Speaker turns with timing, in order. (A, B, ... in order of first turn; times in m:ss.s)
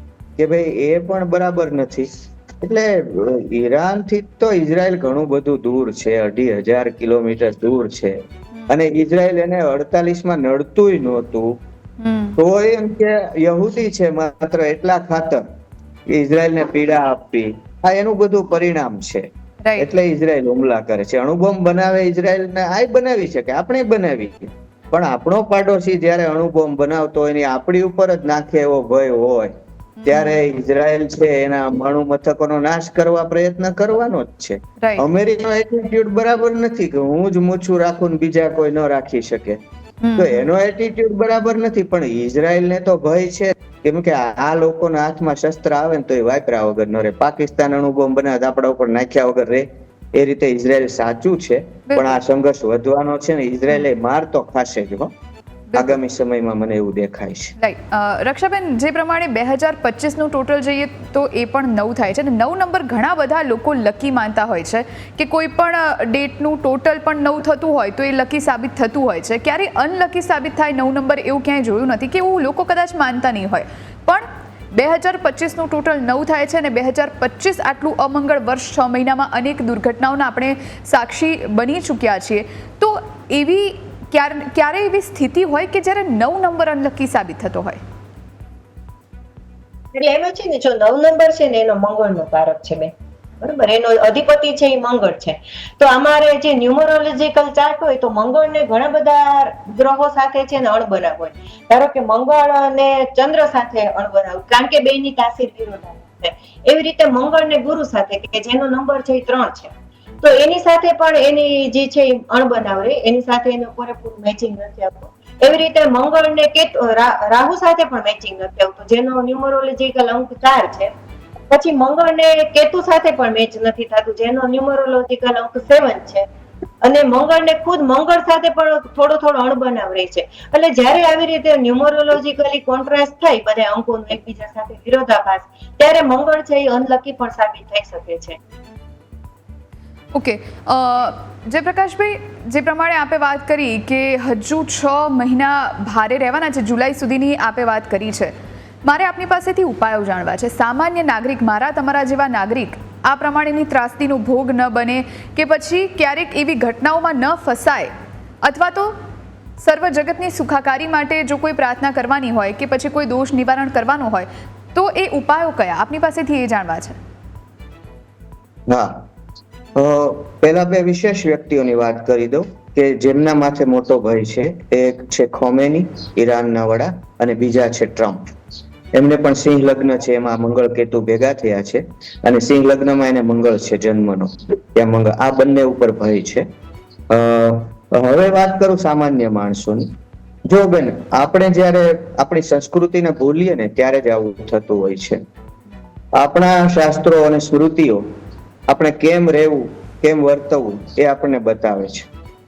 0:00.4-0:11.5 A
0:12.0-0:12.4 B
0:12.4-0:15.4 A
0:16.1-0:29.5 A
0:19.6-0:19.9 B
0:30.0-0:30.4 B
0:30.0-0:39.6 A
0:34.8-0:35.0 B
0:40.0-0:40.5 B
0:40.2-0:55.1 A
0:51.9-0:52.2 B
0:55.7-0:56.0 B
0:55.7-0:57.5 A
0:57.6-1:27.8 B
1:29.9-2:00.9 C
2:01.5-2:06.2 C
2:06.8-2:18.4 C
2:20.1-2:28.3 B
2:28.8-2:37.9 B
2:38.4-2:39.0 B
2:39.6-2:47.0 B
2:48.7-2:49.0 A
2:49.7-2:58.2 A
2:58.9-3:06.5 A
3:07.1-3:09.9 A
3:10.5-3:15.2 A
3:16.2-3:18.1 A
3:18.7-3:22.1 A